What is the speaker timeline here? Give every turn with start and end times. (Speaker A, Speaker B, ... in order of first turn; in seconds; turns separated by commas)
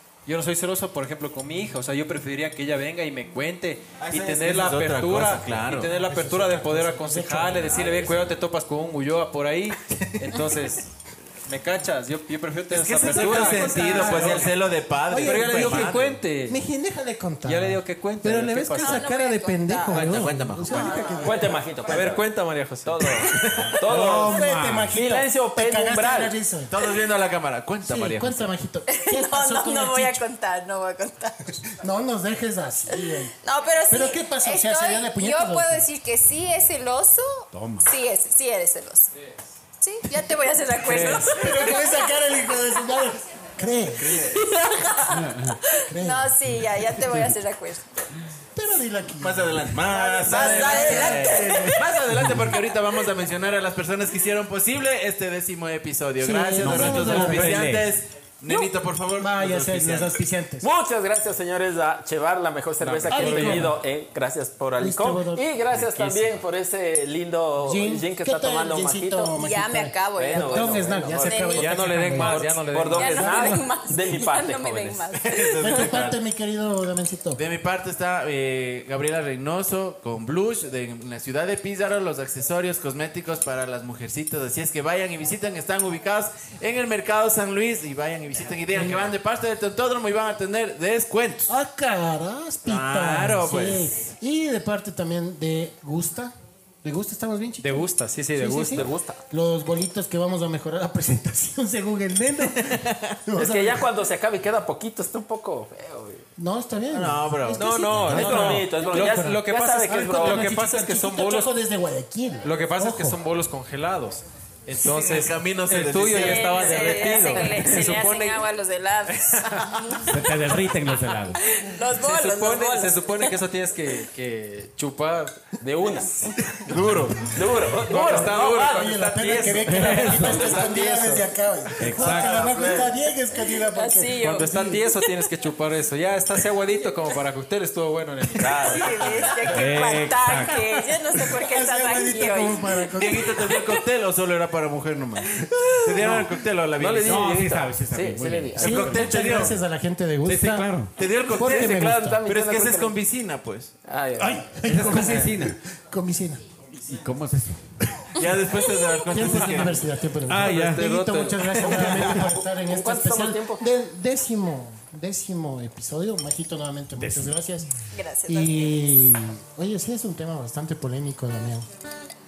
Speaker A: 0.2-14.5, Speaker B: 4.0-5.9, Speaker C: 5.9-8.3, Speaker B: 10.0-10.3, Speaker B: 12.7-16.2, Speaker C: 13.0-14.5, Speaker C: 15.1-21.6, Speaker A: 15.2-16.6, Speaker A: 17.4-19.1, Speaker D: 18.8-21.5, Speaker B: 19.9-21.2, Speaker E: 21.2-22.3, Speaker A: 21.9-23.7, Speaker E: 22.8-26.3, Speaker C: 23.8-26.7, Speaker F: 24.3-24.9, Speaker B: 26.7-28.5, Speaker C: 27.8-30.2, Speaker D: 28.9-31.6, Speaker C: 31.7-33.3, Speaker D: 32.9-39.1, Speaker C: 33.9-35.8, Speaker F: 37.5-37.9, Speaker D: 39.8-42.0, Speaker A: 40.8-41.4, Speaker C: 40.9-44.2, Speaker B: 44.0-44.5, Speaker D: 44.3-47.9, Speaker F: 45.1-45.6, Speaker C: 45.8-46.3, Speaker C: 48.5-51.8, Speaker B: 49.2-60.2, Speaker D: 50.2-51.8, Speaker C: 56.2-57.7, Speaker F: 56.6-57.9, Speaker C: 59.1-60.7, Speaker E: 60.6-69.3, Speaker A: 62.8-63.8, Speaker C: 63.1-63.8, Speaker C: 64.8-65.5, Speaker A: 65.8-66.2, Speaker C: 67.6-72.5, Speaker D: 69.3-75.8, Speaker E: 70.2-75.1, Speaker A: 71.5-73.5, Speaker C: 73.1-73.7, Speaker B: 75.2-76.2, Speaker C: 75.6-77.4, Speaker B: 77.3-91.5, Speaker C: 88.7-89.1, Speaker C: 91.5-103.9, Speaker B: 92.6-94.0, Speaker A: 97.6-98.9, Speaker E: 98.7-99.2, Speaker B: 102.6-103.1, Speaker E: 103.3-106.2, Speaker C: 106.4-113.2, Speaker B: 106.9-108.2, Speaker A: 107.6-111.5, Speaker E: 108.1-110.6, Speaker A: 112.4-118.4, Speaker B: 114.8-117.2, Speaker D: 116.1-120.1, Speaker A: 119.1-120.1, Speaker F: 120.1-121.4, Speaker D: 121.4-123.3, Speaker A: 121.9-125.5, Speaker E: 125.6-126.3, Speaker B: 126.6-127.7, Speaker E: 127.3-129.0, Speaker A: 127.8-131.3, Speaker C: 128.6-134.8, Speaker F: 129.6-130.5, Speaker F: 131.8-132.5, Speaker B: 132.0-132.9, Speaker E: 132.5-132.8, Speaker D: 133.7-135.0, Speaker A: 134.2-139.3, Speaker E: 138.4-138.9, Speaker D: 138.6-143.7, Speaker F: 139.5-140.6, Speaker C: 141.3-143.5, Speaker B: 142.9-147.5, Speaker E: 146.8-149.0, Speaker F: 147.0-149.1, Speaker B: 148.6-149.6, Speaker C: 148.6-150.7, Speaker F: 150.2-150.9, Speaker B: 150.9-153.7, Speaker C: 151.3-152.2, Speaker E: 151.3-153.0, Speaker E: 153.8-155.1, Speaker F: 154.2-155.6, Speaker C: 154.5-156.4, Speaker F: 156.8-157.7, Speaker B: 158.1-159.9, Speaker C: 159.1-167.7, Speaker F: 160.3-160.9, Speaker A: 160.4-162.2, Speaker E: 162.0-163.6, Speaker F: 167.0-167.3, Speaker D: 167.9-169.0, Speaker C: 168.2-171.7